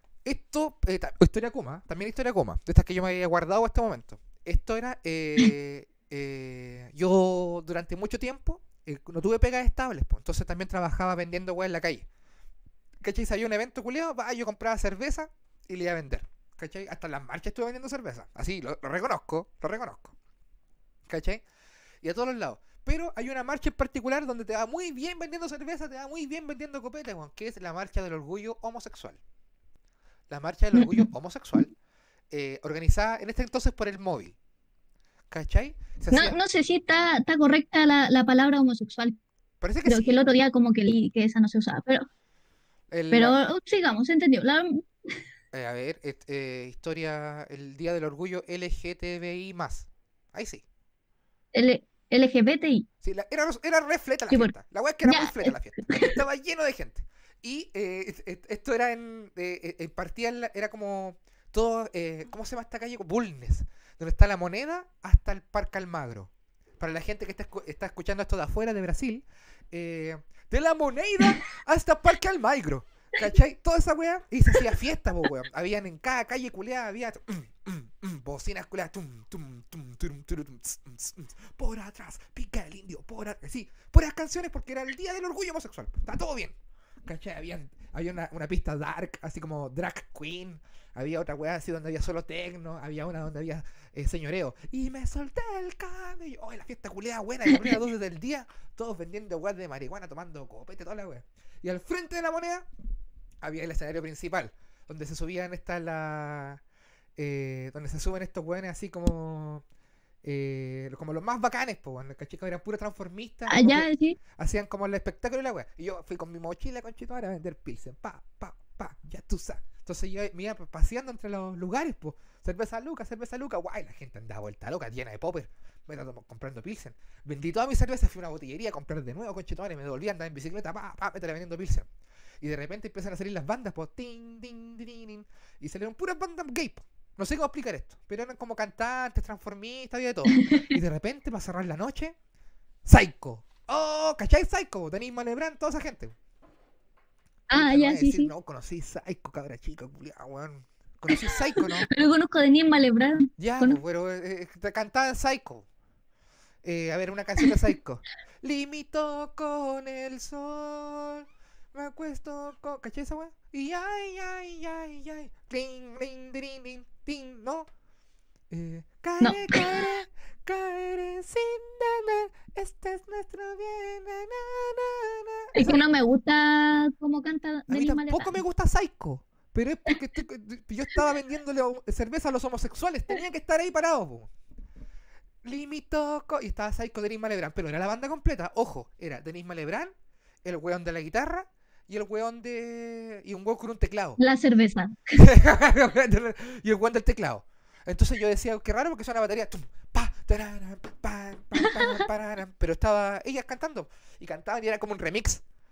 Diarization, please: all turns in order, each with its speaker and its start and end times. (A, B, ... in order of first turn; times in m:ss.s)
0:00.2-0:12.1 A
0:13.0-0:20.2 A
0:21.1-0:21.4 A
0:22.0-0:29.2 A
0:30.3-0:31.7 A
0:30.7-0:31.1 B
0:32.3-0:34.4 A
0:35.3-0:36.4 A
0:36.1-0:39.2 B
0:39.6-0:40.2 A
0:39.8-0:42.1 B
0:42.9-0:43.4 A
0:43.1-0:44.8 B
0:45.5-0:50.6 A
0:51.5-0:52.9 B
0:53.0-1:42.7 A
0:55.0-0:56.2 B
1:43.4-1:46.6 A
1:47.2-1:49.6 A
1:50.2-2:11.9 A
1:53.5-1:54.2 B
2:12.4-2:22.2 A
2:20.3-2:20.7 B
2:22.8-2:26.2 A
2:27.5-2:28.3 B
2:27.5-2:31.9 A
2:31.6-2:33.8 B
2:33.4-2:35.7 A
2:36.6-2:47.7 A
2:48.5-2:55.8 A
2:49.2-2:49.7 B
2:55.6-2:58.4 B
2:57.7-3:04.3 A
3:05.4-3:09.9 A
3:10.4-3:14.2 A
3:14.2-3:15.0 B
3:15.2-3:25.4 A